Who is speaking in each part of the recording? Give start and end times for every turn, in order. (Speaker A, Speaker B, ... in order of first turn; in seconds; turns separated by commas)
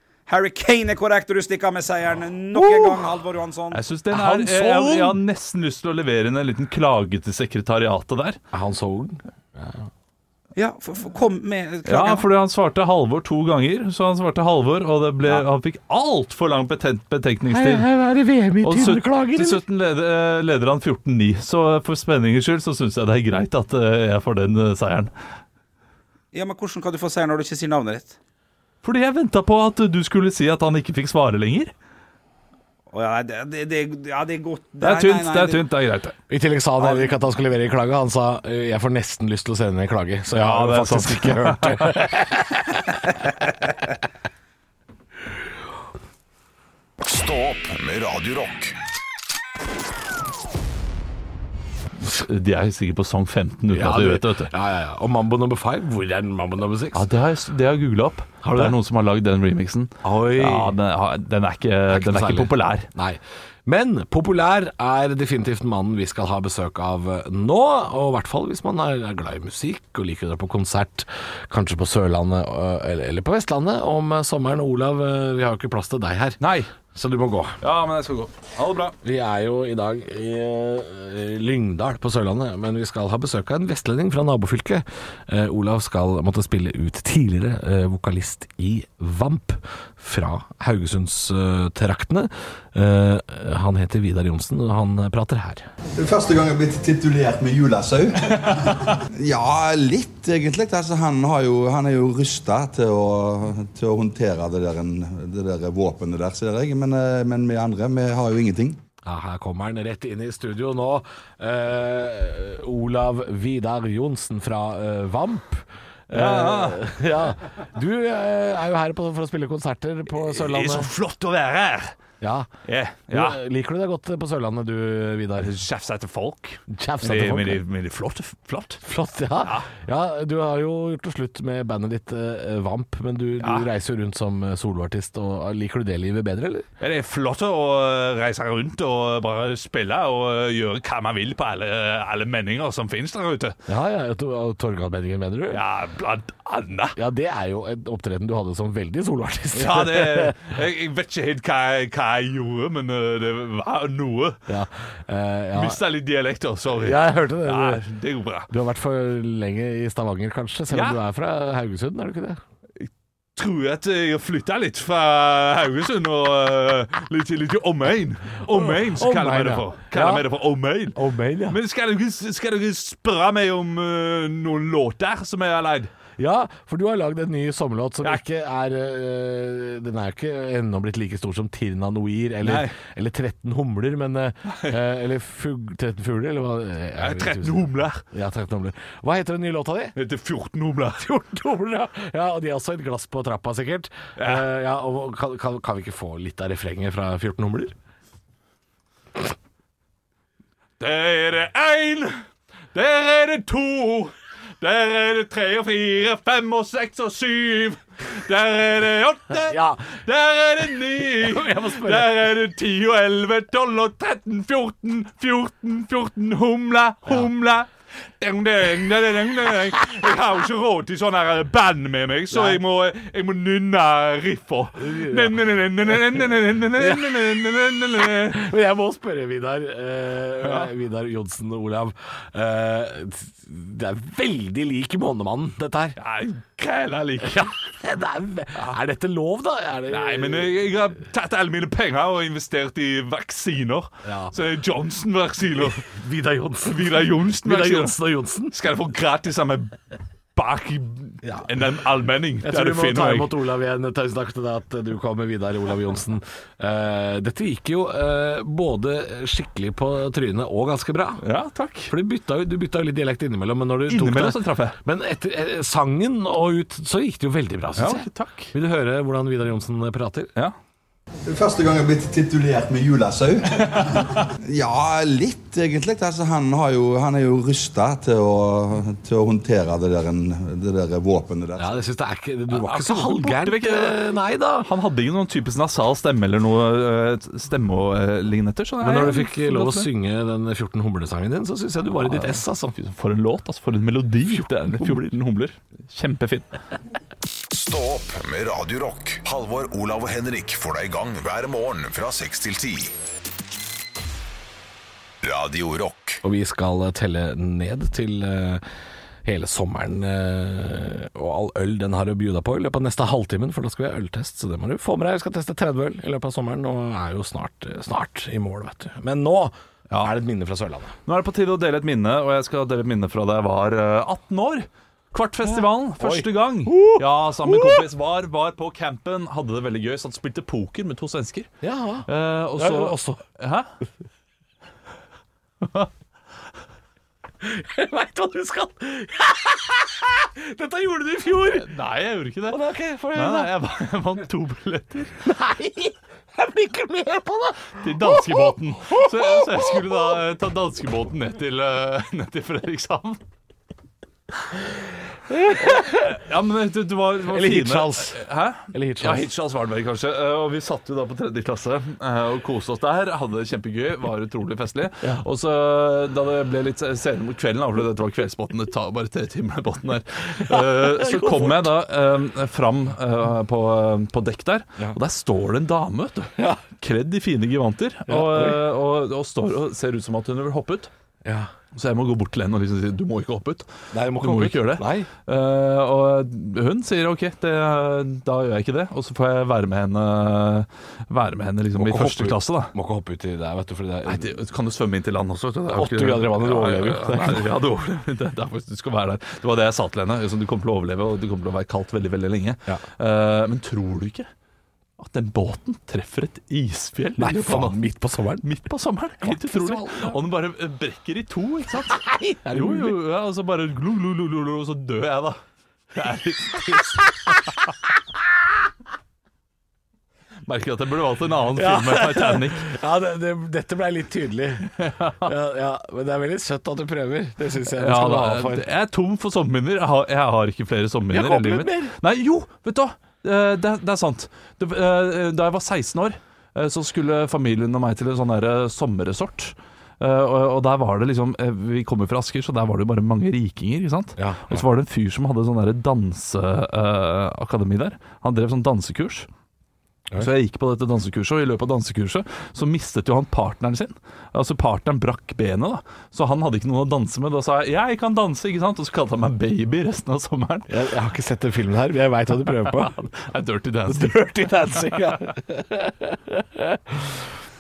Speaker A: 0.3-3.8, Speaker B: 2.5-3.0, Speaker C: 3.7-8.4, Speaker B: 4.1-5.2, Speaker B: 8.5-9.9, Speaker A: 10.6-12.3, Speaker C: 11.8-17.9, Speaker B: 17.5-19.6, Speaker C: 18.6-25.1, Speaker A: 26.3-28.2, Speaker C: 28.8-31.7, Speaker A: 32.9-35.7, Speaker C: 34.8-36.2, Speaker B: 36.3-42.7, Speaker A: 36.8-37.1, Speaker C: 40.3-42.1, Speaker D: 47.0-48.8, Speaker C: 52.0-54.5, Speaker B: 53.7-57.1, Speaker C: 56.9-62.9, Speaker B: 58.5-58.8, Speaker B: 60.0-60.8, Speaker B: 61.9-76.4, Speaker C: 76.4-76.7, Speaker B: 76.9-77.6, Speaker C: 77.6-79.0, Speaker B: 79.0-95.7, Speaker E: 96.0-108.8, Speaker B: 109.0-120.9, Speaker C: 116.1-116.8, Speaker C: 120.1-122.0, Speaker B: 122.2-122.5, Speaker C: 122.7-123.4, Speaker B: 123.1-125.5, Speaker C: 125.4-128.8, Speaker B: 126.7-127.6, Speaker B: 128.8-136.7, Speaker C: 129.4-129.7, Speaker C: 133.4-133.7, Speaker C: 136.8-143.6, Speaker B: 143.7-145.6, Speaker C: 145.5-146.9, Speaker B: 147.0-150.5, Speaker C: 149.5-154.4, Speaker B: 154.5-155.8, Speaker C: 155.5-158.5, Speaker B: 156.7-157.8, Speaker B: 158.5-162.4, Speaker C: 160.7-161.0, Speaker C: 162.8-171.0, Speaker B: 168.4-170.3, Speaker B: 170.9-171.6, Speaker C: 171.5-175.9, Speaker B: 176.2-189.9, Speaker C: 182.4-182.8, Speaker C: 187.0-188.0, Speaker C: 189.9-191.1, Speaker B: 191.0-197.7, Speaker C: 194.2-194.5, Speaker C: 200.8-202.2, Speaker C: 202.7-217.7, Speaker B: 209.4-209.9, Speaker B: 211.0-212.1, Speaker C: 218.2-228.5, Speaker B: 222.3-222.6, Speaker B: 224.8-225.4, Speaker B: 228.2-236.0, Speaker C: 230.4-230.7, Speaker C: 236.0-237.5, Speaker B: 237.2-240.5, Speaker C: 239.9-245.8, Speaker B: 244.0-244.4, Speaker B: 245.5-248.6, Speaker C: 246.7-248.0, Speaker C: 248.5-249.8, Speaker C: 250.3-253.3, Speaker B: 251.2-251.5, Speaker B: 252.4-261.2, Speaker C: 261.2-261.9, Speaker B: 261.9-270.3, Speaker C: 263.9-264.8, Speaker C: 267.8-268.5, Speaker E: 271.3-281.8, Speaker C: 273.7-274.3, Speaker B: 281.6-284.7, Speaker C: 282.5-284.0, Speaker C: 284.6-289.9, Speaker B: 288.8-292.8, Speaker C: 292.0-296.6, Speaker B: 294.3-295.0, Speaker D: 297.5-302.9, Speaker D: 305.2-306.2, Speaker B: 306.2-308.6, Speaker B: 309.2-321.0, Speaker C: 321.1-331.5, Speaker B: 325.5-327.9, Speaker B: 331.6-333.2, Speaker C: 332.1-333.7, Speaker C: 335.6-335.9, Speaker B: 337.4-341.7, Speaker C: 341.5-342.6, Speaker B: 342.5-343.5, Speaker C: 343.1-345.2, Speaker B: 345.2-350.2, Speaker C: 347.8-353.2, Speaker B: 355.3-356.1, Speaker C: 355.6-380.9, Speaker B: 357.3-358.2, Speaker B: 358.7-359.3, Speaker B: 370.4-371.7, Speaker B: 376.4-376.6, Speaker B: 378.1-378.6, Speaker B: 381.2-381.5, Speaker C: 381.7-392.7, Speaker B: 383.9-385.1, Speaker B: 391.8-394.3, Speaker C: 394.1-404.3, Speaker B: 395.7-397.5, Speaker C: 405.0-407.8, Speaker B: 407.2-408.4, Speaker C: 408.4-415.4, Speaker B: 409.2-410.1, Speaker B: 412.0-413.0, Speaker C: 415.9-417.7, Speaker C: 420.4-422.6, Speaker B: 421.6-428.7, Speaker C: 424.8-425.3, Speaker C: 427.6-449.3, Speaker B: 431.1-431.9, Speaker B: 444.2-444.6, Speaker C: 450.2-460.7, Speaker B: 460.7-463.1, Speaker C: 462.7-465.2, Speaker B: 463.9-467.1